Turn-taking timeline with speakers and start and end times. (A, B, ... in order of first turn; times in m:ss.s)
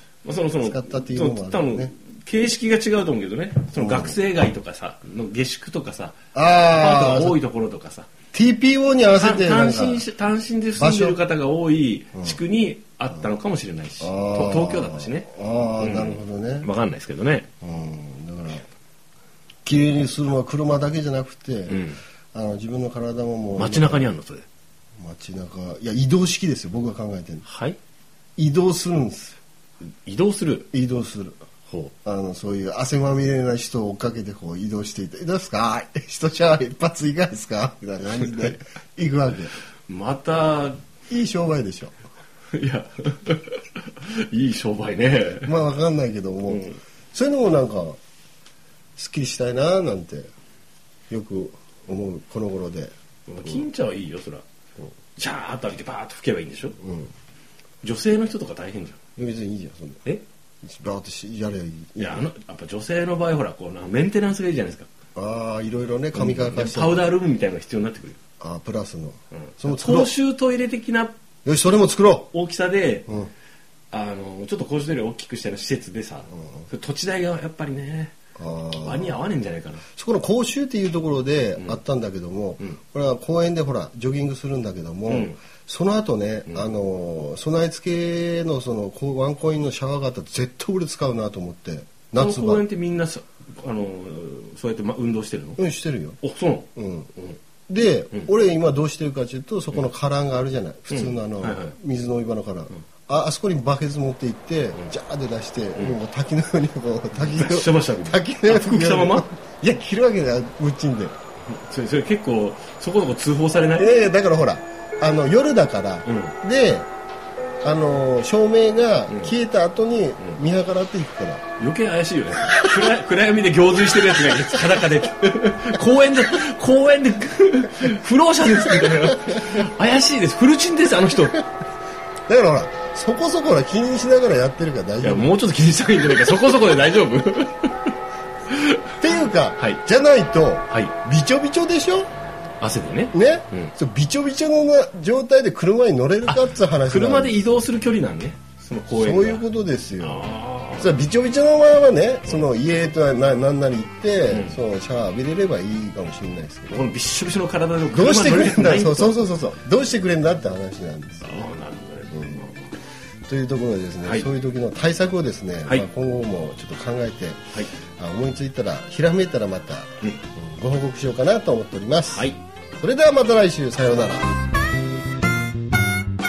0:00.2-0:06.2 A
0:00.6-0:01.9 B
0:03.7-0:04.2 B
0:06.3-0:07.4 B
0:06.7-0:08.1 A
0:08.3-0:10.1 B
0:09.1-0:17.5 A
0:10.8-0:11.2 B
0:14.0-0:16.7 B
0:17.6-0:18.6 B
0:19.6-0:24.1 B
0:21.7-0:22.0 A
0:23.6-0:24.5 A
0:25.0-0:27.4 B
0:27.4-0:27.8 A
0:28.4-0:29.4 B
0:30.0-0:30.7 A
0:30.7-0:31.4 B
0:31.7-0:31.9 A
0:32.0-0:39.5 B
0:39.9-0:40.8 A
0:41.1-0:41.9 B
0:42.5-0:45.5 A
0:45.4-0:48.0 B
0:46.5-0:46.8 A
0:49.0-0:50.3 B
0:51.1-0:52.9 B
0:53.3-0:54.4 A
0:55.2-0:56.8 A
0:56.8-0:57.1 B
0:57.8-0:59.0 A
0:59.2-1:00.0 B
1:00.6-1:02.3 B
1:02.0-1:04.9 A
1:05.1-1:07.2 B
1:06.1-1:08.2 A
1:08.4-1:10.1 B
1:09.3-1:11.1 A
1:11.4-1:12.3 B
1:12.3-1:13.1 A
1:13.9-1:18.1 A
1:18.4-1:19.2 B
1:18.8-1:19.8 A
1:20.0-1:32.6 B
1:25.1-1:25.4 A
1:32.1-1:35.6 A
1:35.6-1:36.2 B
1:36.2-1:37.4 A
1:36.8-1:37.1 B
1:37.7-1:51.1 B
1:40.9-1:41.8 A
1:47.2-1:49.3 A
1:51.5-1:53.9 A
1:53.8-1:56.9 B
1:56.0-1:56.4 A
1:57.6-2:01.4 B
2:01.6-2:11.4 A
2:02.4-2:02.9 B
2:04.2-2:04.6 B
2:08.8-2:09.5 B
2:12.3-2:15.3 B
2:15.0-2:17.9 A
2:18.5-2:18.9 A
2:19.0-2:22.1 B
2:22.6-2:23.7 A
2:23.1-2:27.5 B
2:26.3-2:29.4 A
2:28.9-2:36.8 B
2:30.0-2:31.0 A
2:34.3-2:34.6 A
2:36.7-2:39.2 A
2:37.9-2:41.5 B
2:41.2-2:42.7 A
2:42.1-2:42.5 B
2:43.3-2:47.4 B
2:48.0-2:52.3 B
2:52.1-2:52.4 A
2:52.8-2:54.3 B